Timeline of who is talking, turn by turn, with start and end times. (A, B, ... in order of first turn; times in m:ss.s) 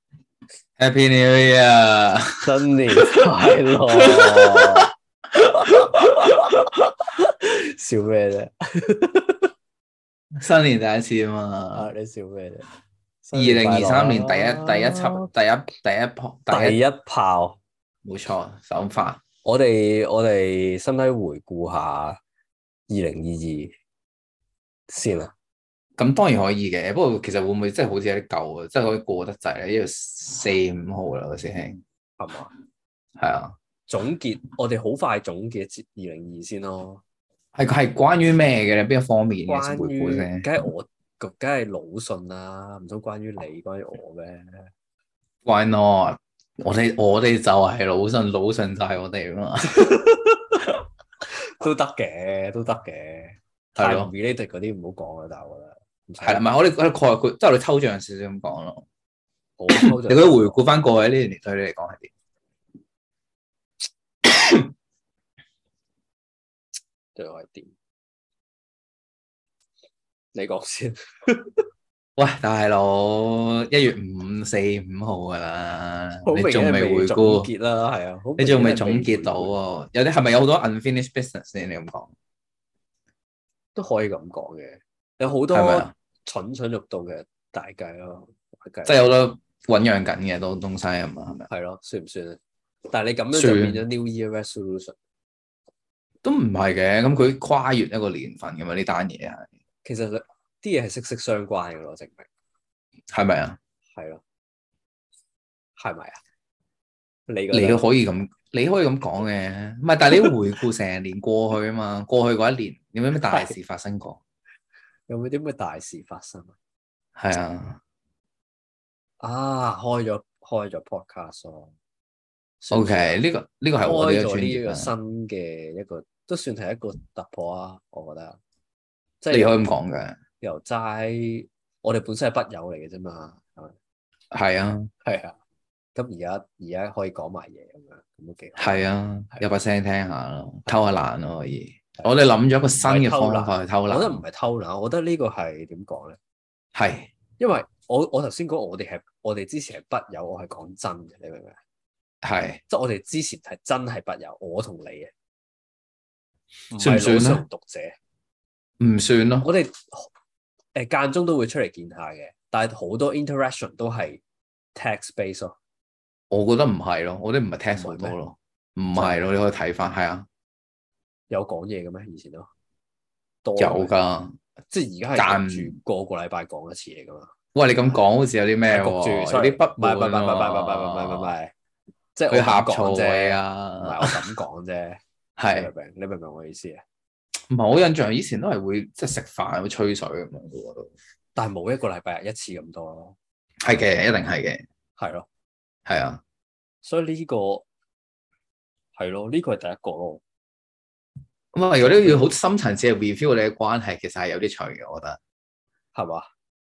0:00.8-0:02.5 A
0:02.4-0:04.9 B
0:04.0-0:04.9 A
0:05.6-0:09.5 B
0:05.6-0:06.3 A
0:10.4-0:11.9 A
0:11.7-0:12.7 B
0:13.2-0:15.3 B
0:13.3-0:16.8 A
0:16.5-0:17.6 B
0:18.0-0:19.2 A
0:19.4-0:22.2 B
0:22.9-0:23.7 B
0:24.9-0:25.3 B
0:26.0-0:31.8 A
0:32.2-0:32.5 B
0:33.2-0:33.6 A
0:33.9-0:37.0 B
0:37.6-0:40.4 A
0:39.5-0:44.7 B
0:45.4-0:50.0 A
0:49.7-0:50.7 B
0:51.3-0:56.5 B
0:53.8-0:54.1 A
0:56.2-0:58.8 A
0:59.6-1:00.6 B
0:59.7-1:02.1 A
1:04.2-1:04.6 A
1:07.2-1:07.7 B
1:10.3-1:11.6 B
1:12.2-1:17.5 A
1:16.3-1:19.5 B
1:18.4-1:22.1 A
1:23.8-1:29.0 B
1:25.5-1:25.9 A
1:28.8-1:31.5 A
1:31.5-1:32.4 B
1:32.9-1:35.0 B
1:33.3-1:33.8 A
1:36.2-1:39.5 A
1:39.8-1:42.3 B
1:43.1-1:43.6 A
1:43.9-1:44.2 B
1:45.8-1:46.2 B
1:47.3-1:47.8 B
1:47.5-1:54.2 A
1:55.1-1:56.6 B
1:57.2-1:57.8 A
1:59.2-2:01.7 B
2:02.6-2:03.2 B
2:02.7-2:04.9 A
2:03.8-2:08.4 B
2:09.2-2:09.6 B
2:09.3-2:10.2 A
2:10.4-2:13.8 B
2:14.3-2:14.9 A
2:15.0-2:15.4 B
2:16.0-2:19.4 B
2:18.6-2:24.2 A
2:22.8-2:26.2 B
2:26.8-2:27.1 A
2:27.4-2:31.6 B
2:32.2-2:32.6 A
2:32.7-2:35.1 B
2:36.7-2:38.0 B
2:36.8-2:37.4 A
2:38.8-2:39.5 A
2:39.4-2:40.1 B
2:40.8-2:44.2 B
2:44.8-2:45.6 B
2:46.3-2:50.3 A
2:47.7-2:48.2 B
2:49.0-2:49.3 B
2:51.3-2:52.5 B
2:53.4-2:53.9 B
2:53.6-2:54.4 A
2:54.7-2:57.3 B
2:55.2-2:55.7 A
2:57.5-3:01.3 A
2:58.7-3:01.5 B
3:02.2-3:06.8 B
3:02.3-3:04.1 A
3:05.4-3:05.7 A
3:07.5-3:10.9 A
3:11.4-3:13.2 B
3:13.6-3:14.6 A
3:15.0-3:15.3 B
3:15.9-3:16.2 A
3:16.8-3:17.6 B
3:19.0-3:20.2 B
3:21.5-3:25.2 A
3:21.8-3:22.3 B
3:26.0-3:26.3 B